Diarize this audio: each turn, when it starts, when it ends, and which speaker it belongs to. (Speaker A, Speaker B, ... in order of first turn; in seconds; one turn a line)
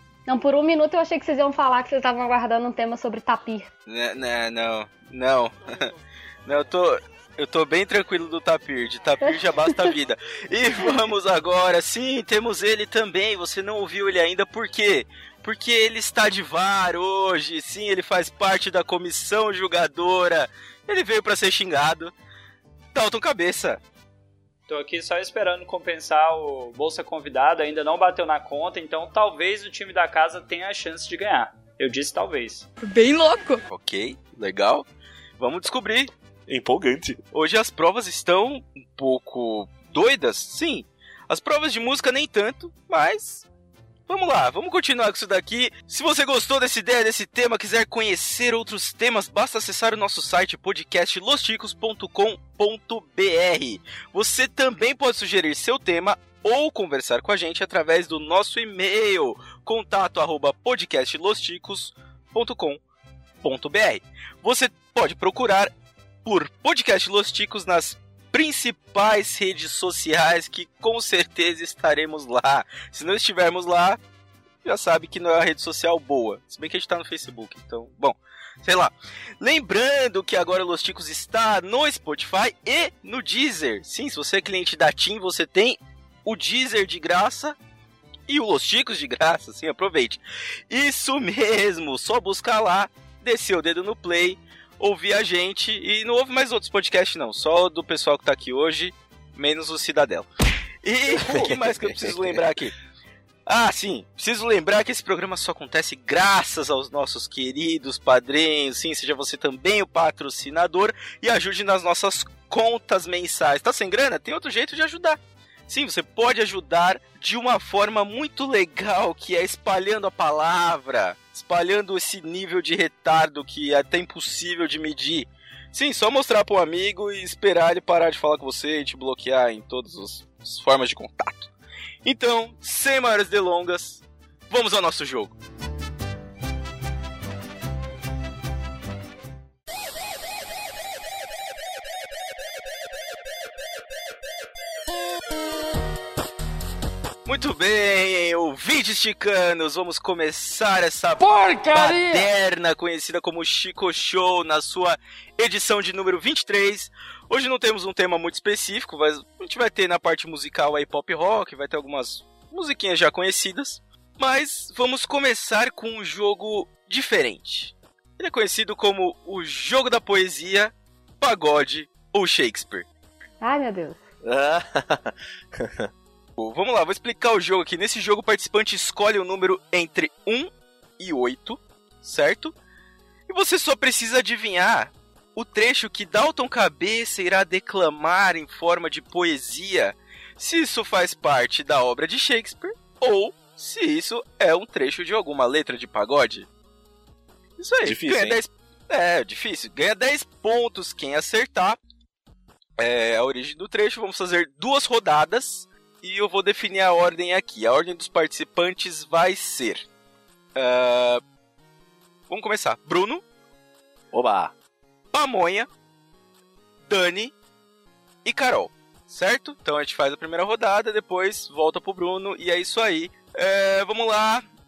Speaker A: 0.3-3.7
Speaker B: 3.9-5.9
Speaker B: 6.5-22.1
Speaker B: 22.9-23.8
Speaker C: 24.7-32.7
Speaker D: 32.8-33.6
Speaker B: 33.7-34.9
Speaker B: 35.4-36.1
Speaker E: 36.5-37.2
Speaker B: 37.3-43.5
Speaker B: 44.1-62.8
Speaker B: 63.4-65.7
Speaker B: 66.2-74.0
Speaker B: 74.6-87.6
Speaker B: 88.3-100.3
Speaker B: 100.8-102.7
Speaker C: 101.1-101.6
Speaker E: 101.6-102.4
Speaker B: 103.5-131.5
Speaker B: 132.1-135.3
Speaker B: 147.2-172.9
Speaker D: 151.2-152.3
Speaker A: 173.4-174.0
Speaker E: 174.2-175.9
Speaker B: 176.4-182.5
Speaker B: 183.3-196.5
Speaker B: 197.6-201.8
Speaker E: 197.8-198.4
Speaker B: 202.8-209.9
Speaker B: 210.6-211.2
Speaker B: 212.3-213.2
Speaker E: 214.1-214.5
Speaker B: 215.1-215.7
Speaker B: 216.8-217.3
Speaker B: 218.2-224.4